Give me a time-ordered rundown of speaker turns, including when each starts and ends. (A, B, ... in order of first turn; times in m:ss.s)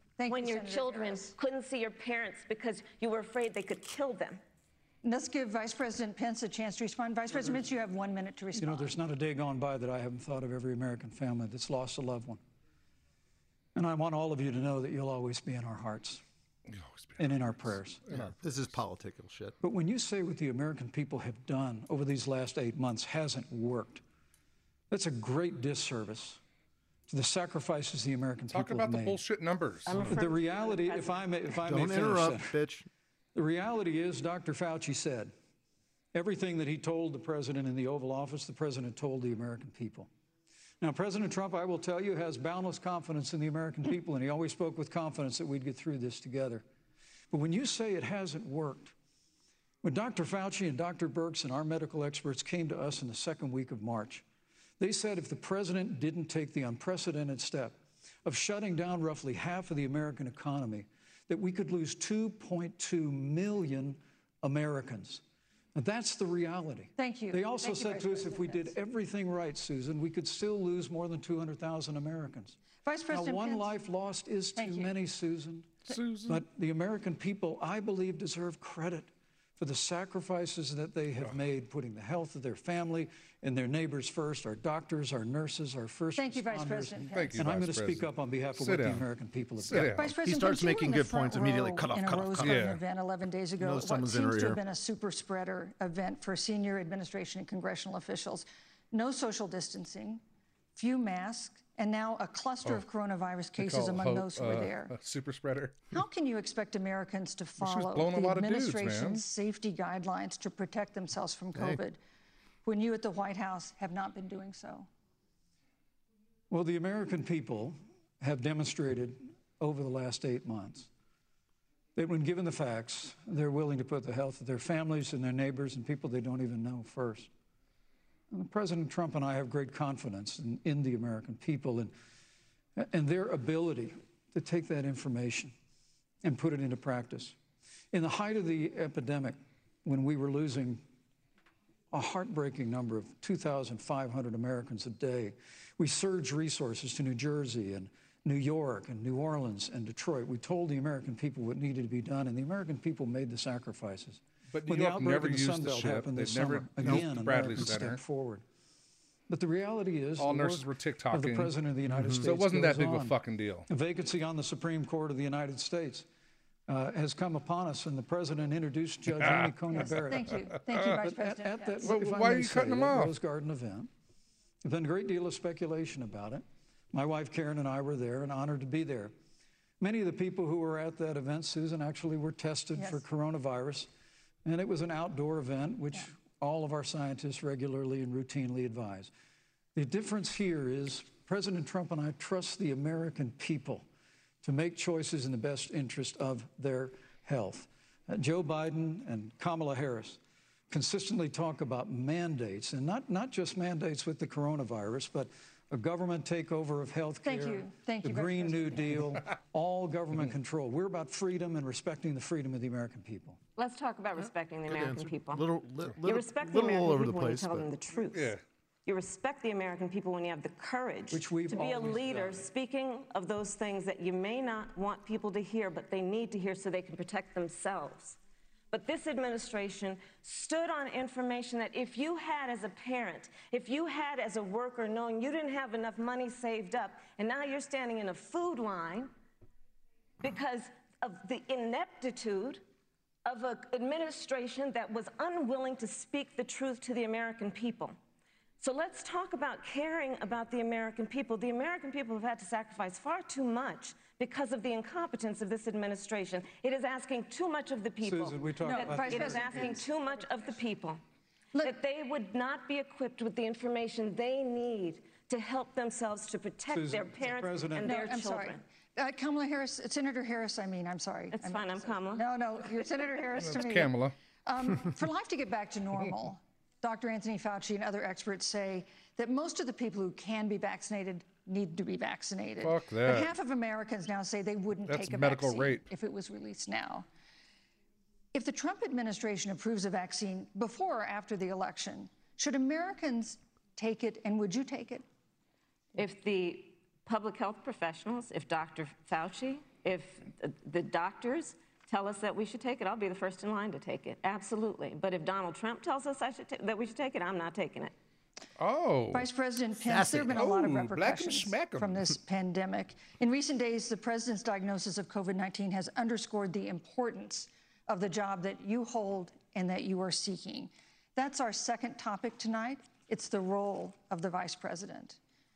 0:00.2-0:01.3 A
0:00.3-0:04.4 B
0:05.0-0:08.9 A
0:08.6-0:12.4 C
0:13.8-0:16.2 C
0:16.7-0:17.3 D
0:17.2-0:18.0 C
0:18.1-0:18.3 D
0:18.1-0:19.6 E
0:19.6-0:24.0 C
0:24.9-0:26.4 C
0:27.1-0:29.2 C
0:28.5-0:30.1 D
0:29.9-0:31.2 B
0:30.0-0:32.6 C
0:31.7-0:32.9 E
0:33.4-0:35.3 C
0:36.1-0:40.1 C
0:40.8-0:46.6 C
0:47.3-0:48.9 C
0:49.8-0:54.2 C
0:54.8-1:05.2 C
1:05.8-1:12.6 C
1:07.0-1:08.7 A
1:12.8-1:13.7 A
1:13.1-1:15.7 C
1:14.6-1:14.9 A
1:15.9-1:16.4 D
1:16.3-1:30.0 C
1:26.2-1:27.4 A
1:27.1-1:29.1 D
1:29.6-1:30.1 D
1:29.9-1:40.2 A
1:30.2-1:32.6 E
1:32.4-1:32.8 D
1:33.6-1:34.6 E
1:40.8-1:45.0 A
1:43.6-1:45.9 D
1:45.9-1:52.0 A
1:47.6-1:49.2 D
1:51.6-1:51.8 E
1:52.6-1:54.9 A
1:56.5-2:00.9 C
2:02.0-2:07.3 C
2:08.3-2:11.9 C
2:12.8-2:15.5 C
2:16.2-2:17.4 C
2:17.9-2:20.8 C
2:21.9-2:38.4 C
2:34.5-2:38.0 D
2:39.3-2:46.1 C
2:40.2-2:41.5 D
2:41.9-2:42.2 E
2:42.2-2:43.7 D
2:46.7-2:50.4 C
2:49.2-2:49.9 D
2:49.8-2:51.9 A
2:51.0-2:53.9 C
2:51.8-2:53.1 D
2:54.6-2:59.1 C
2:59.8-3:03.9 C
3:02.8-3:03.0 A
3:04.4-3:09.1 C
3:09.8-3:13.8 C
3:14.4-3:33.4 C
3:27.2-3:29.0 A
3:33.6-3:35.5 B
3:34.7-3:37.7 E
3:36.0-3:48.2 B
3:38.1-3:38.4 D
3:41.1-3:42.4 C
3:48.7-3:59.1 B
4:00.2-4:02.6 B
4:03.2-4:08.0 B
4:08.6-4:21.0 B
4:18.0-4:19.8 C
4:18.6-4:19.8 A
4:21.6-4:28.6 B
4:26.7-4:27.9 C
4:27.8-4:47.1 A
4:31.3-4:32.2 B
4:33.5-4:34.1 D
4:42.6-4:43.3 D
4:44.9-4:45.9 D
4:48.3-4:55.0 A
4:56.0-5:07.9 B
5:08.6-5:09.3 D
5:09.1-5:25.2 A
5:09.8-5:10.4 E
5:10.3-5:12.0 D